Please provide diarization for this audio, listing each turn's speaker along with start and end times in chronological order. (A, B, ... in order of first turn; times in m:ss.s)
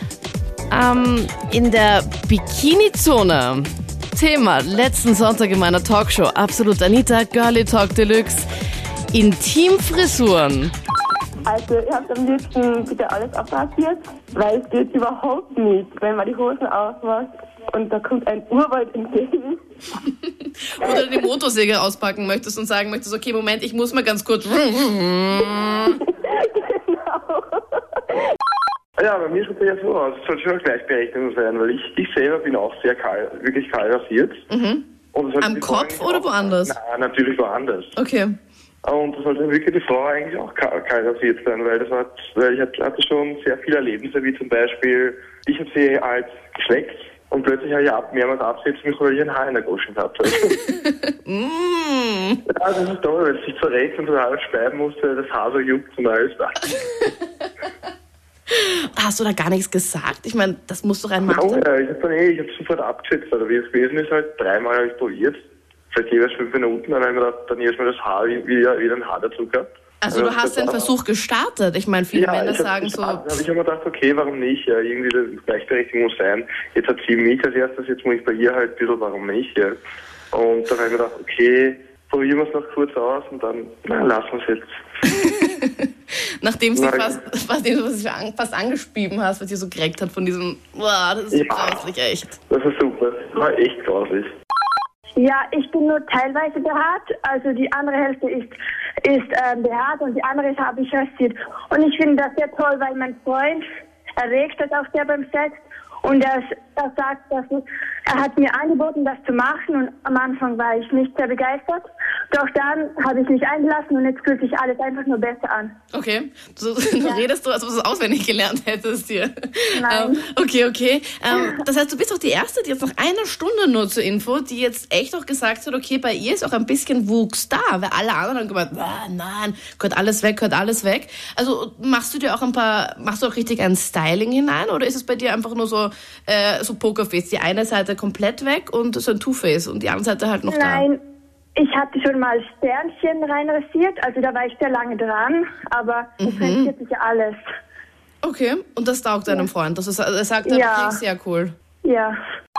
0:00.7-0:08.4 A
0:09.1-0:10.7 A
0:11.4-0:19.6 B
0:20.7-0:26.0 A
0:25.9-0:27.5 B
0:29.0-0:34.4 C
0:34.5-0:34.8 A
0:35.1-0:37.9 C
0:35.4-0:36.8 A
0:38.0-0:38.4 A
0:38.8-0:50.6 C
0:50.8-0:52.4 A
0:52.6-0:56.7 C
0:58.6-1:01.6 A
1:01.2-1:05.4 C
1:05.9-1:10.9 C
1:10.0-1:13.3 A
1:12.1-1:19.8 C
1:20.3-1:24.7 C
1:25.1-1:25.9 A
1:26.4-1:32.4 A
1:26.7-1:27.1 C
1:31.3-1:31.7 C
1:32.5-1:34.3 C
1:35.2-1:43.6 D
1:44.2-1:55.7 D
1:55.9-2:20.8 A
1:59.7-2:00.3 D
2:20.5-2:21.0 D
2:21.6-2:27.4 D
2:26.2-2:26.7 A
2:28.2-2:31.5 A
2:30.4-2:31.0 D
2:31.8-2:32.2 D